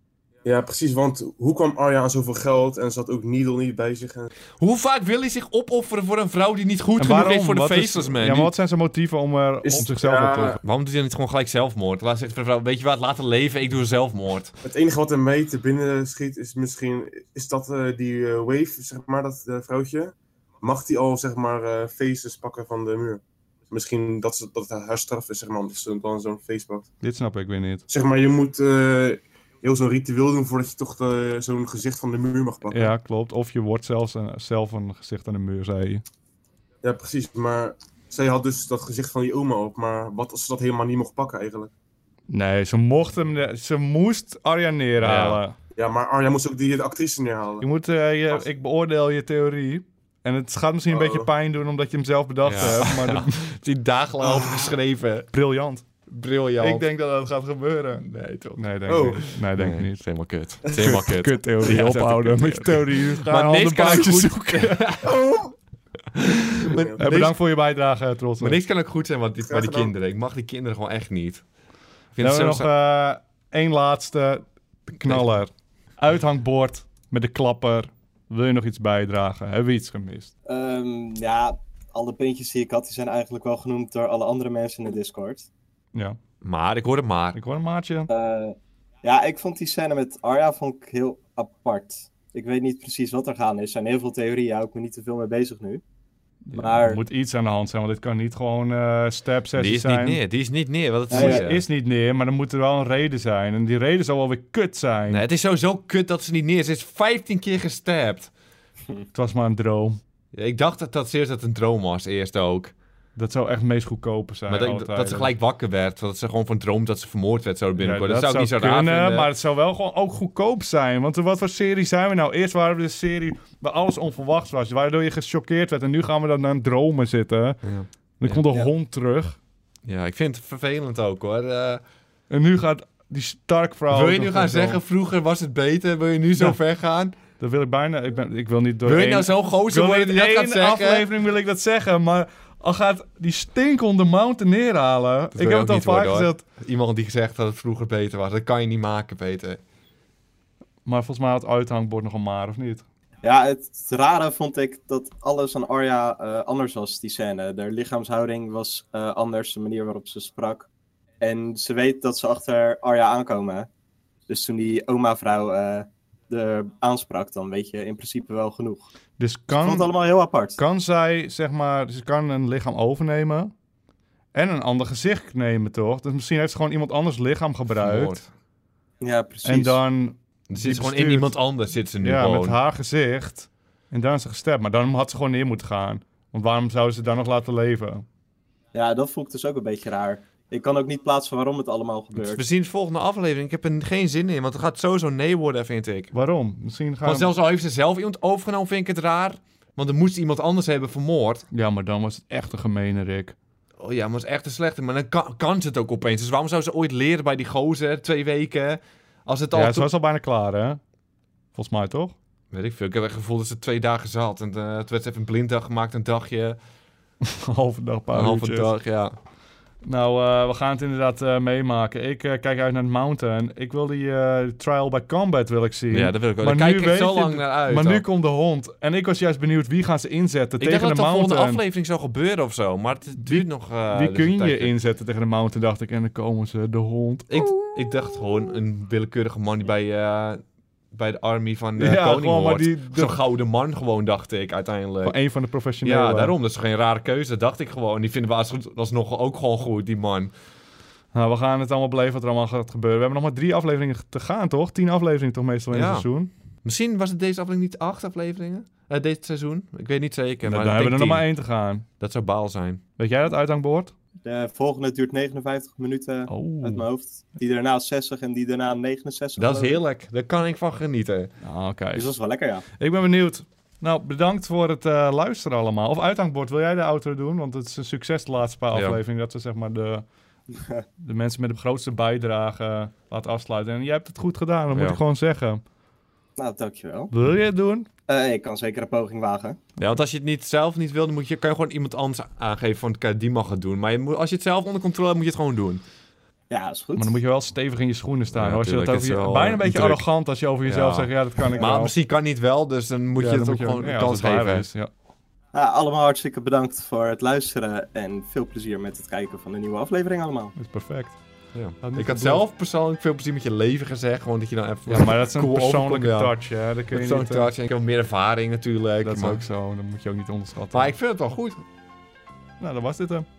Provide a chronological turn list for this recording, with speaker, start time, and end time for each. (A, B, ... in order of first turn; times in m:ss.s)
0:00.4-0:04.3 A
0:04.6-0:08.5 B
0:07.0-0:10.6 C
0:09.6-0:10.6 A
0:10.6-0:14.5 B
0:14.6-0:26.9 A
0:27.0-0:27.8 C
0:27.9-0:32.9 A
0:32.7-0:36.0 C
0:36.8-0:41.7 A
0:42.3-0:45.6 C
0:45.0-0:45.4 B
0:45.8-0:47.6 A
0:47.6-0:53.5 C
0:50.9-0:51.3 A
0:52.4-0:55.3 B
0:55.3-0:55.9 C
0:56.1-0:56.8 B
0:56.6-1:00.0 C
0:58.0-1:05.5 B
1:00.6-1:05.0 C
1:06.1-1:07.4 B
1:06.7-1:07.1 A
1:07.0-1:08.6 C
1:08.4-1:11.4 B
1:09.4-1:09.9 A
1:12.1-1:12.7 B
1:12.2-1:20.3 C
1:15.0-1:15.3 B
1:20.5-1:25.5 D
1:26.4-1:27.4 B
1:27.3-1:28.1 C
1:28.1-1:35.8 D
1:36.4-1:40.2 C
1:36.5-1:37.0 D
1:39.5-1:41.6 B
1:41.1-1:41.4 D
1:41.1-1:45.2 C
1:45.1-1:48.3 B
1:49.1-1:50.0 C
1:50.3-1:52.7 B
1:53.2-1:55.3 C
1:54.5-1:59.3 B
1:57.8-2:07.6 C
2:07.6-2:08.4 B
2:08.2-2:09.4 C
2:09.8-2:11.8 B
2:12.3-2:14.8 C
2:13.9-2:17.1 B
2:17.4-2:26.4 C
2:18.8-2:21.1 B
2:25.3-2:29.6 B
2:30.8-2:32.8 C
2:33.2-2:40.7 D
2:41.2-2:43.7 D
2:44.3-2:48.9 D
2:49.2-2:49.9 C
2:49.5-2:50.6 D
2:50.6-2:53.5 C
2:54.3-2:58.2 C
2:57.7-2:58.3 B
2:59.0-2:59.8 D
2:59.4-3:01.4 C
3:00.5-3:02.6 B
3:02.0-3:08.0 C
3:08.7-3:12.4 D
3:12.2-3:16.1 B
3:16.1-3:17.3 C
3:17.0-3:21.4 B
3:21.5-3:23.4 C
3:23.8-3:29.9 B
3:29.5-3:30.8 C
3:31.5-3:32.1 C
3:32.5-3:36.6 B
3:37.4-3:38.7 C
3:38.1-3:39.1 B
3:39.8-3:51.6 C
3:45.9-3:48.0 B
3:50.6-3:54.7 B
3:53.2-3:57.3 C
3:57.3-4:05.2 B
4:01.8-4:03.1 C
4:05.0-4:06.3 C
4:05.8-4:10.3 B
4:11.1-4:16.3 C
4:15.7-4:16.1 B
4:16.6-4:21.3 B
4:20.4-4:21.8 C
4:22.0-4:22.8 B
4:23.0-4:23.9 C
4:24.2-4:29.8 D
4:26.3-4:26.8 C
4:29.4-4:31.3 B
4:31.4-4:32.1 C
4:31.9-4:32.6 D
4:32.8-4:40.0 C
4:38.7-4:39.0 B
4:40.6-4:40.8 D
4:41.0-4:45.6 C
4:44.7-4:45.0 B
4:46.4-4:47.1 D
4:47.1-4:47.9 C
4:48.1-4:49.6 D
4:49.8-4:55.8 B
4:56.5-4:57.2 D
4:57.0-5:01.9 C
4:58.3-5:00.0 B
5:00.6-5:04.7 B
5:03.2-5:04.9 C
5:05.5-5:10.5 D
5:10.5-5:11.2 C
5:11.5-5:16.3 B
5:11.8-5:12.5 C
5:14.9-5:17.5 C
5:16.9-5:19.4 B
5:19.0-5:20.9 C
5:20.7-5:21.6 B
5:22.6-5:23.2 C